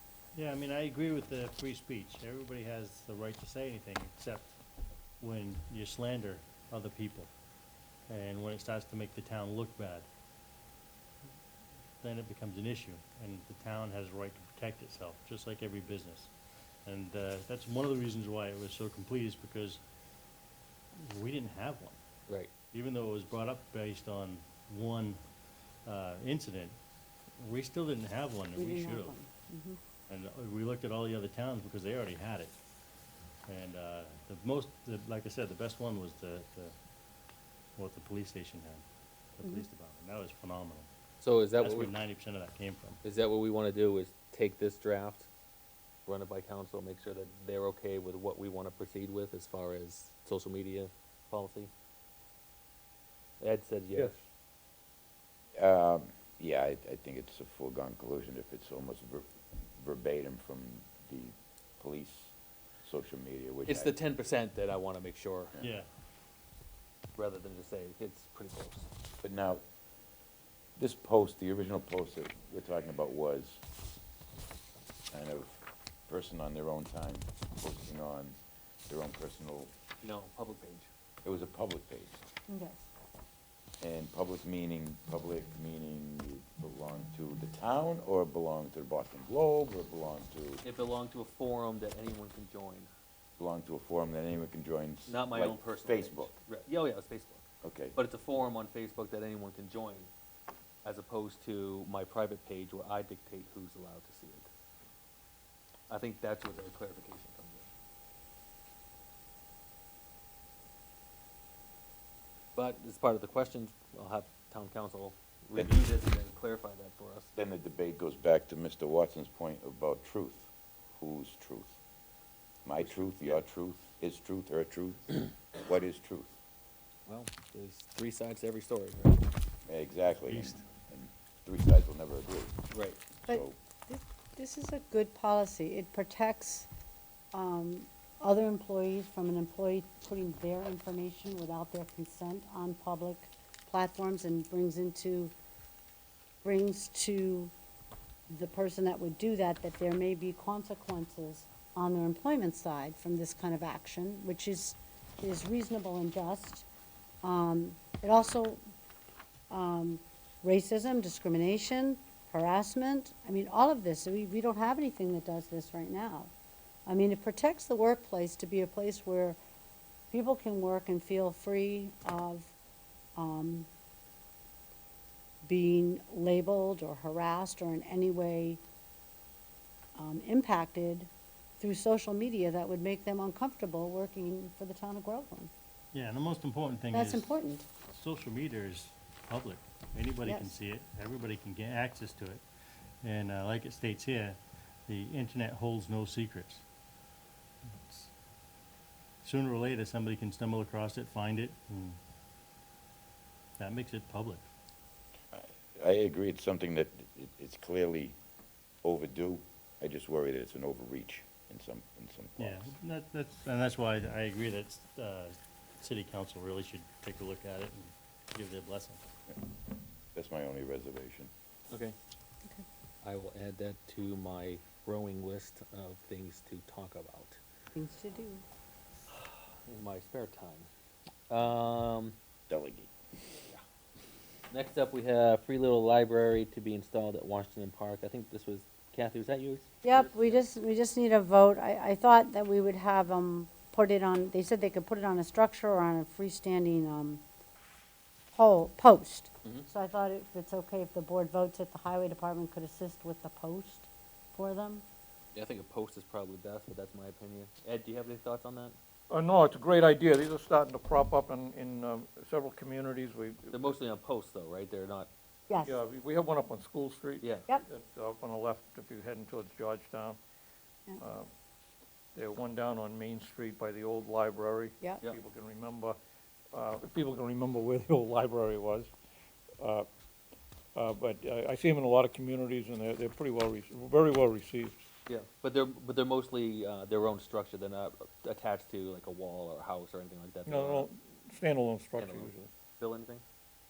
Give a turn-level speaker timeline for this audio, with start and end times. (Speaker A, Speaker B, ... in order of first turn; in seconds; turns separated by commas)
Speaker A: 0.3-4.5, Speaker A: 5.2-7.3, Speaker A: 8.1-10.1, Speaker A: 12.0-16.3, Speaker A: 16.9-19.8, Speaker A: 21.0-22.0, Speaker A: 22.7-25.2, Speaker A: 25.9-26.8, Speaker A: 27.4-29.1, Speaker B: 28.6-29.8, Speaker A: 30.1-32.5, Speaker A: 33.5-36.8, Speaker A: 37.8-38.8, Speaker A: 39.4-40.9, Speaker B: 39.4-39.7, Speaker C: 41.2-41.9, Speaker A: 41.5-43.0, Speaker C: 43.0-45.3, Speaker C: 46.1-51.7, Speaker C: 53.4-54.1, Speaker D: 53.9-54.2, Speaker E: 55.5-62.3, Speaker E: 62.8-64.0, Speaker C: 63.7-65.5, Speaker A: 65.6-65.9, Speaker C: 67.2-68.9, Speaker E: 69.2-69.6, Speaker E: 70.8-73.6, Speaker E: 75.1-78.3, Speaker E: 78.9-79.7, Speaker C: 80.0-80.9, Speaker E: 81.2-82.2, Speaker B: 82.5-82.8, Speaker E: 83.8-90.6, Speaker C: 90.6-92.9, Speaker E: 93.4-96.3, Speaker C: 95.0-97.4, Speaker E: 97.6-98.0, Speaker C: 98.0-100.1, Speaker C: 100.8-104.5, Speaker C: 105.9-107.7, Speaker C: 112.5-117.3, Speaker E: 117.3-121.8, Speaker E: 122.6-126.3, Speaker C: 122.8-123.4, Speaker C: 127.1-129.2, Speaker E: 129.7-132.6, Speaker A: 130.2-130.6, Speaker C: 132.7-133.0, Speaker E: 133.2-133.6, Speaker B: 133.3-136.7, Speaker B: 137.3-145.3, Speaker B: 146.4-147.5, Speaker B: 148.3-156.6, Speaker B: 157.2-158.6, Speaker B: 159.5-166.3, Speaker B: 166.8-169.4, Speaker B: 170.1-172.5, Speaker B: 173.2-173.7, Speaker B: 175.4-178.6, Speaker B: 179.9-181.1, Speaker B: 181.6-185.5, Speaker A: 185.9-187.4, Speaker B: 186.9-187.7, Speaker A: 187.9-192.4, Speaker B: 190.2-190.5, Speaker A: 193.0-196.6, Speaker A: 197.7-198.1, Speaker A: 199.2-202.0, Speaker A: 203.6-204.4, Speaker E: 205.3-208.2, Speaker E: 208.8-212.7, Speaker A: 212.4-219.0, Speaker E: 220.1-221.3, Speaker C: 223.0-227.4, Speaker B: 227.8-228.4, Speaker C: 229.1-230.7, Speaker C: 231.3-232.2, Speaker E: 232.5-232.9, Speaker C: 234.5-240.4, Speaker B: 239.8-247.2, Speaker B: 248.3-254.8, Speaker C: 255.3-258.8, Speaker D: 259.1-263.8, Speaker C: 263.5-265.1, Speaker B: 265.5-265.8, Speaker D: 265.6-270.2, Speaker C: 267.2-267.5, Speaker D: 271.0-271.3, Speaker D: 272.1-276.0, Speaker D: 276.5-278.9, Speaker D: 279.6-279.9, Speaker D: 280.8-284.9, Speaker C: 285.1-290.9, Speaker D: 290.5-292.5, Speaker C: 292.0-293.2